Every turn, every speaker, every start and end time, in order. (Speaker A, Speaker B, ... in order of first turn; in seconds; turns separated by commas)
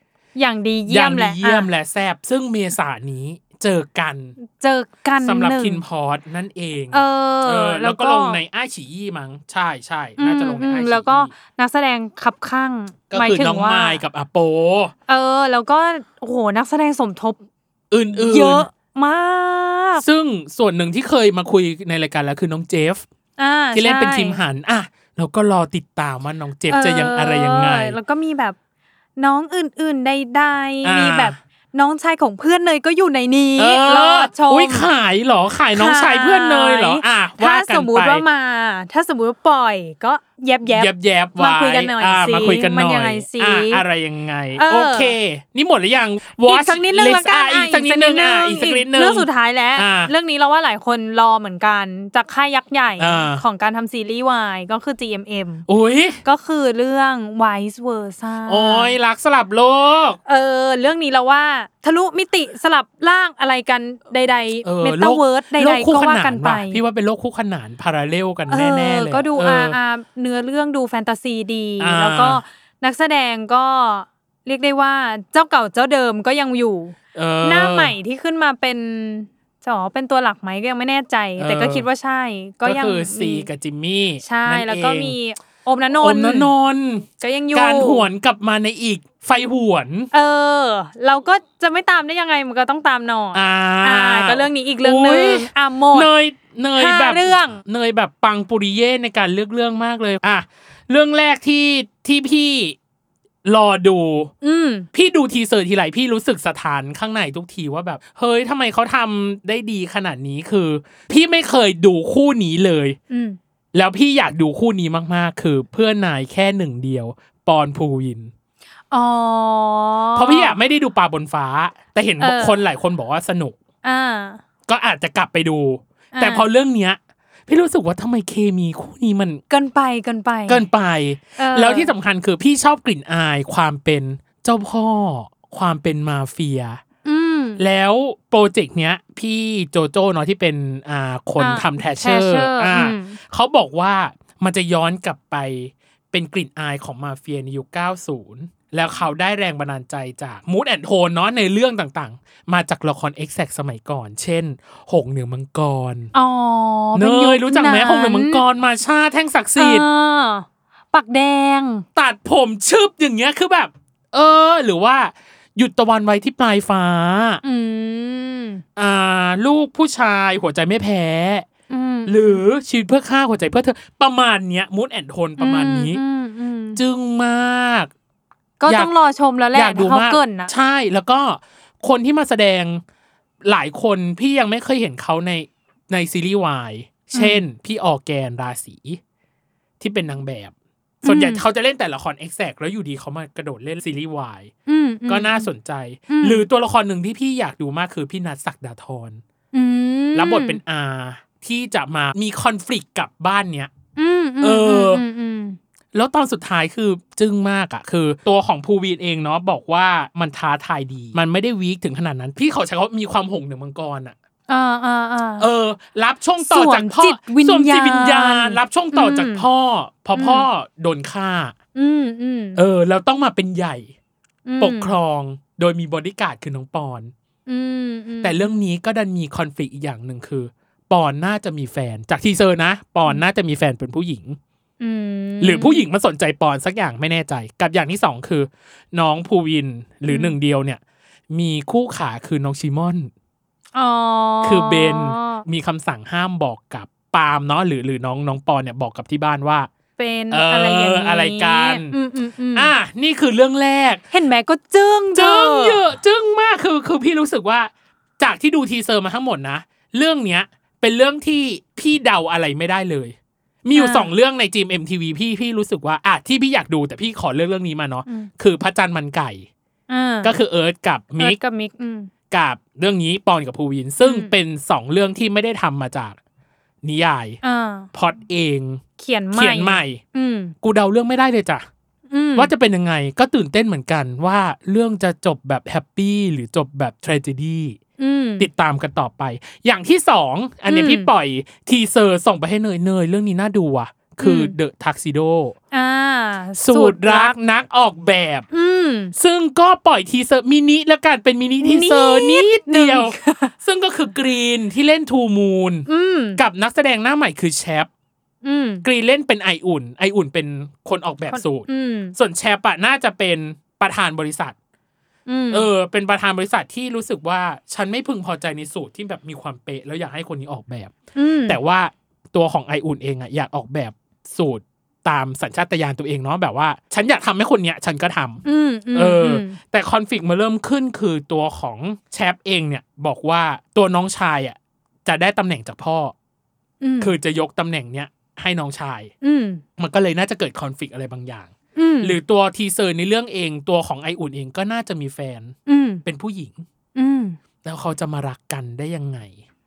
Speaker A: 0.3-1.7, Speaker B: 0.9-4.4, Speaker A: 4.5-5.8, Speaker B: 5.2-11.3, Speaker A: 6.9-8.4, Speaker A: 10.2-14.0, Speaker B: 13.1-14.9, Speaker A: 15.1-17.4, Speaker B: 17.9-18.7, Speaker A: 18.1-20.0, Speaker B: 20.0-23.0, Speaker A: 23.4-24.4, Speaker B: 23.7-27.9, Speaker A: 26.7-28.6, Speaker A: 29.2-34.9, Speaker B: 30.8-31.4, Speaker B: 33.6-38.2, Speaker A: 35.7-43.8, Speaker B: 40.6-50.1, Speaker A: 44.5-45.1, Speaker A: 46.4-55.6, Speaker B: 53.0-53.4, Speaker B: 55.7-56.2, Speaker A: 56.2-59.0, Speaker B: 58.5-60.2, Speaker A: 60.2-66.8, Speaker B: 64.6-69.8, Speaker A: 68.5-83.5, Speaker B: 71.8-72.4, Speaker B: 77.1-78.0, Speaker B: 81.4-81.9, Speaker B: 82.6-85.2, Speaker A: 84.2-86.5, Speaker B: 86.0-90.1, Speaker A: 87.2-88.1, Speaker A: 90.1-96.1, Speaker B: 93.3-102.8, Speaker A: 96.8-97.5, Speaker B: 103.4-104.3, Speaker A: 104.4-104.9, Speaker B: 104.9-113.0, Speaker A: 113.1-113.4, Speaker B: 113.7-118.3, Speaker A: 118.9-120.5, Speaker B: 120.1-123.6, Speaker A: 122.2-122.6, Speaker A: 123.8-124.4, Speaker B: 124.7-129.4, Speaker A: 126.1-126.5, Speaker A: 129.5-130.6, Speaker B: 130.5-136.8, Speaker A: 131.4-131.9, Speaker A: 137.0-137.6, Speaker B: 137.6-156.1, Speaker A: 141.4-143.2, Speaker A: 156.1-158.4, Speaker B: 156.9-159.8, Speaker A: 159.6-161.8, Speaker B: 161.9-167.4, Speaker A: 167.4-168.6, Speaker B: 168.8-171.4, Speaker A: 171.7-172.4, Speaker B: 172.1-176.0, Speaker A: 175.4-176.8, Speaker B: 176.8-177.9, Speaker A: 178.6-180.5, Speaker B: 178.7-178.9, Speaker B: 179.5-182.8, Speaker B: 183.4-189.0, Speaker A: 187.1-187.4, Speaker B: 189.8-194.5, Speaker A: 191.0-191.4, Speaker A: 194.7-195.5, Speaker B: 195.1-199.2, Speaker A: 196.1-196.4, Speaker A: 199.5-200.6, Speaker B: 200.1-203.7, Speaker A: 203.9-205.6, Speaker B: 204.4-205.0, Speaker B: 205.9-214.1, Speaker A: 214.5-215.5, Speaker B: 215.4-221.5, Speaker A: 216.4-219.4, Speaker A: 220.1-220.5, Speaker A: 221.7-222.6, Speaker B: 222.5-223.9, Speaker A: 224.4-224.9, Speaker B: 224.6-227.1, Speaker A: 227.5-228.6, Speaker B: 228.2-234.4, Speaker A: 234.8-235.8, Speaker B: 235.4-243.1, Speaker A: 240.1-240.3, Speaker A: 243.7-245.4, Speaker B: 244.4-249.7, Speaker A: 250.0-252.7, Speaker B: 250.3-251.9, Speaker B: 252.5-254.0, Speaker A: 254.1-255.8, Speaker B: 255.1-269.5, Speaker A: 263.7-264.1, Speaker A: 269.9-270.3, Speaker B: 270.2-271.4, Speaker A: 271.2-272.1, Speaker B: 272.3-276.2, Speaker A: 274.0-274.3, Speaker B: 276.8-277.4, Speaker A: 277.4-277.9, Speaker B: 277.9-278.8, Speaker A: 279.0-280.5, Speaker B: 279.3-280.0, Speaker B: 280.6-281.6, Speaker A: 282.1-282.5, Speaker B: 282.4-287.8, Speaker A: 288.0-288.5, Speaker B: 288.4-295.5, Speaker A: 290.7-291.1, Speaker A: 294.2-294.5, Speaker A: 295.7-297.3, Speaker B: 296.6-298.5, Speaker A: 298.5-299.1, Speaker B: 299.1-305.9, Speaker A: 301.6-303.5, Speaker A: 305.9-306.4, Speaker B: 306.4-307.9, Speaker A: 308.4-308.8, Speaker B: 308.8-314.5, Speaker A: 311.3-312.1, Speaker A: 315.3-315.7, Speaker B: 315.5-328.4, Speaker A: 321.1-321.6, Speaker A: 328.4-329.6, Speaker B: 328.9-336.1, Speaker A: 336.8-337.1, Speaker B: 337.0-339.1, Speaker A: 339.2-339.6, Speaker B: 339.8-346.6, Speaker A: 341.8-342.2, Speaker A: 345.7-346.0, Speaker A: 346.9-347.4, Speaker B: 347.6-349.4